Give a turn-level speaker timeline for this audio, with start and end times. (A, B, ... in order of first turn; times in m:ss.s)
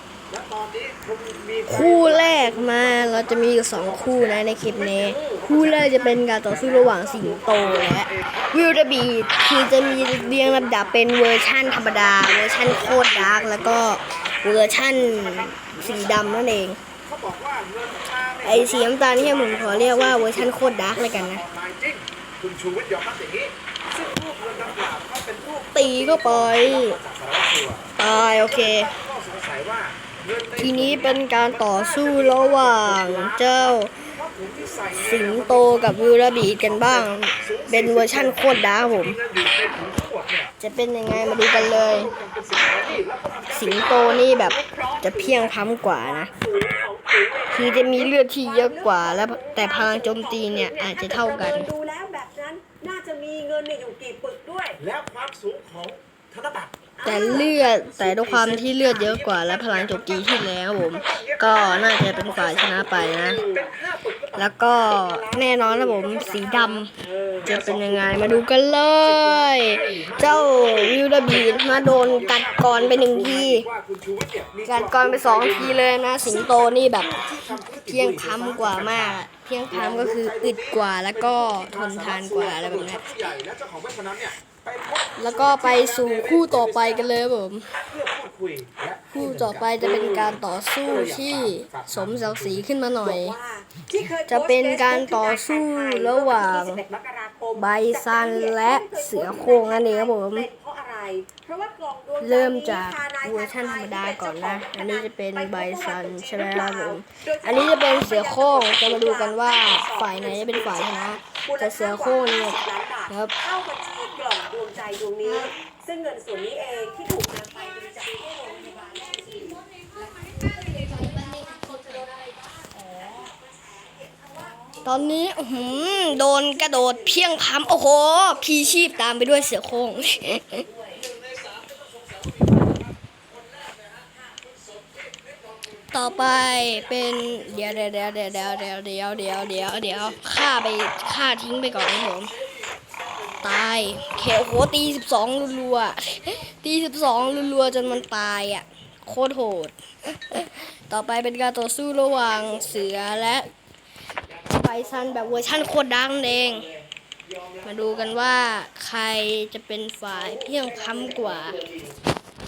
0:00.3-0:16.5 A
0:01.7-0:16.8 B
0:17.0-0:40.5 A
0:18.4-0:21.4 B
0:25.7-0:27.0 B
0:28.0-0:28.9 B
0:30.6-0:33.9 B
0:34.9-0:39.2 B
0:40.6-0:42.1 B
0:41.1-0:44.2 A
0:43.5-0:46.3 B
0:44.2-0:45.6 C
0:46.1-0:54.8 C
0:47.5-0:51.7 B
0:54.8-0:56.7 A
0:57.0-0:57.5 C
0:57.0-1:03.4 B
0:57.7-1:00.3 A
1:00.9-1:04.5 A
1:04.3-1:06.9 B
1:04.9-1:06.8 C
1:07.2-1:08.5 A
1:07.4-1:13.7 B
1:09.0-1:27.1 A
1:14.6-1:23.1 B
1:25.2-1:27.7 B
1:27.9-1:32.6 A
1:29.1-1:33.4 B
1:33.0-2:04.8 C
1:34.3-1:36.8 B
1:37.5-1:40.5 B
1:42.2-1:53.3 B
1:55.2-1:55.6 B
2:04.8-2:10.6 B
2:11.0-2:12.4 A
2:13.5-2:15.6 A
2:15.9-2:22.3 B
2:23.4-2:33.5 B
2:34.4-2:36.7 B
2:37.6-2:41.7 B
2:41.5-2:41.9 A